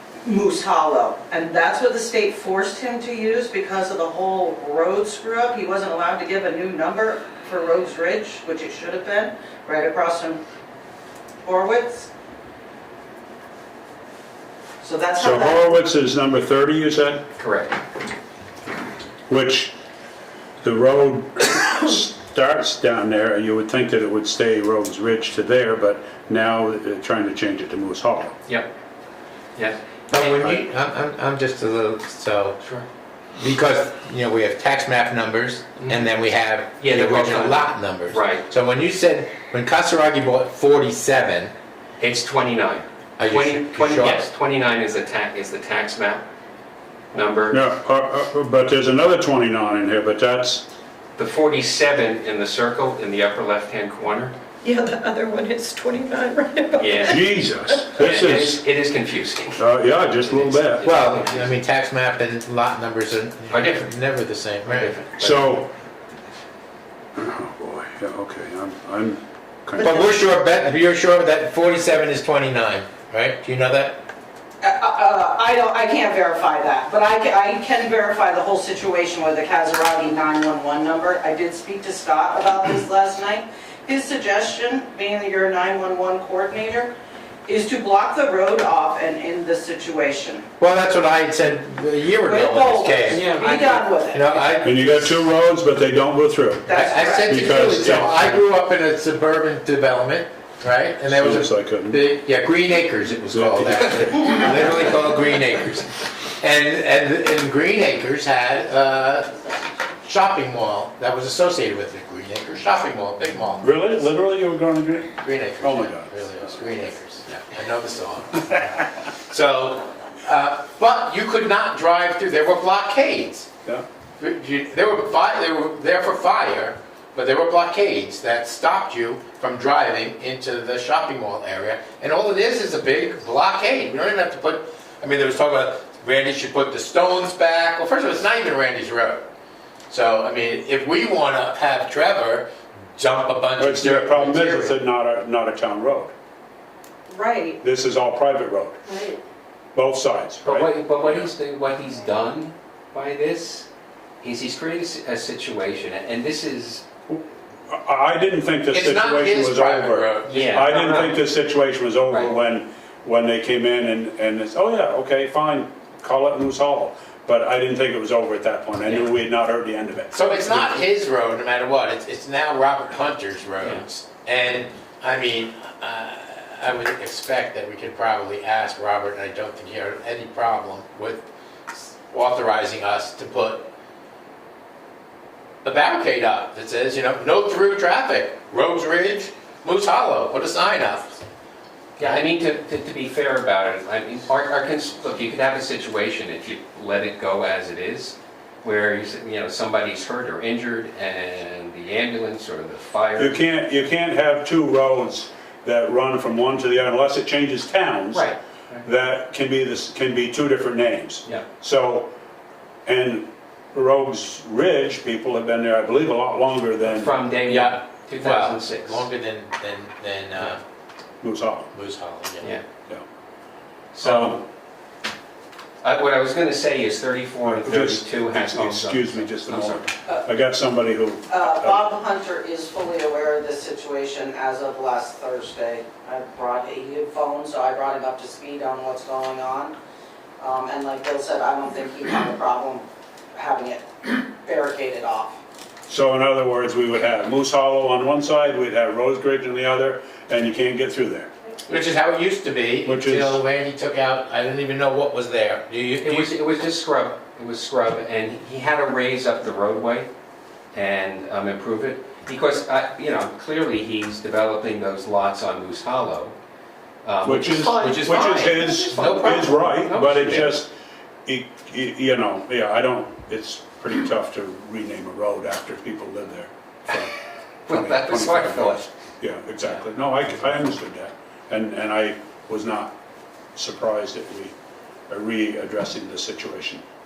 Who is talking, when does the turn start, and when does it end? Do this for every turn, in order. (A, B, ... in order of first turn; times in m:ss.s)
0:00.2-0:10.4 A
0:11.4-0:12.1 A
0:14.8-0:15.6 A
0:15.2-0:17.3 B
0:17.4-0:17.8 C
0:19.3-0:19.7 B
0:20.6-0:28.3 B
0:29.6-0:30.6 C
0:30.1-0:32.6 D
0:32.6-0:32.9 C
0:33.4-0:41.5 D
0:35.8-0:36.1 C
0:36.8-0:38.4 C
0:42.0-0:46.2 C
0:43.2-0:44.2 D
0:47.1-0:47.7 C
0:47.5-0:50.6 B
0:51.2-0:54.4 C
0:54.6-0:58.0 E
0:56.8-0:57.2 C
0:57.0-0:58.6 B
0:57.9-1:01.5 C
0:59.6-1:00.9 B
1:00.8-1:05.0 D
1:03.5-1:03.8 C
1:04.6-1:05.5 C
1:05.2-1:05.7 B
1:07.2-1:09.9 B
1:09.8-1:14.0 D
1:14.6-1:26.9 A
1:27.4-1:30.4 A
1:30.6-1:35.2 D
1:32.2-1:34.5 A
1:33.1-1:33.8 C
1:34.6-1:36.7 B
1:36.7-1:37.5 A
1:36.7-1:54.1 D
1:37.3-1:38.4 B
1:41.1-1:42.0 B
1:43.3-1:44.3 B
1:53.6-1:56.2 B
1:55.2-2:03.5 D
2:04.2-2:19.2 D
2:19.9-2:24.8 D
2:23.6-2:26.1 B
2:27.1-2:27.6 A
2:27.6-2:28.8 B
2:29.8-2:30.7 B
2:30.4-2:33.7 C
2:34.2-2:36.8 C
2:37.1-2:50.1 B
2:38.7-2:40.6 D
2:40.3-2:41.2 C
2:42.1-2:42.3 C
2:50.1-3:03.7 D
2:50.4-2:50.8 C
3:05.6-3:11.2 D
3:12.0-3:23.4 C
3:12.0-3:12.2 D
3:23.2-3:32.1 B
3:28.1-3:28.8 C
3:32.8-3:37.1 B
3:36.8-3:39.1 C
3:37.4-3:40.6 D
3:41.2-3:41.7 B
3:41.7-3:42.6 D
3:43.9-3:44.4 C
3:44.0-3:44.4 B
3:45.8-3:49.9 C
3:47.4-3:51.8 B
3:51.3-3:59.8 A
4:00.4-4:05.4 A
4:05.9-4:11.3 B
4:11.7-4:16.4 D
4:12.8-4:13.4 B
4:16.0-4:20.1 C
4:20.7-4:26.4 C
4:27.0-4:30.6 C
4:27.2-4:30.7 B
4:27.9-4:28.9 E
4:31.2-4:37.1 B
4:37.7-4:38.9 C
4:37.7-4:43.0 B
4:43.6-4:44.5 B
4:45.1-4:46.8 B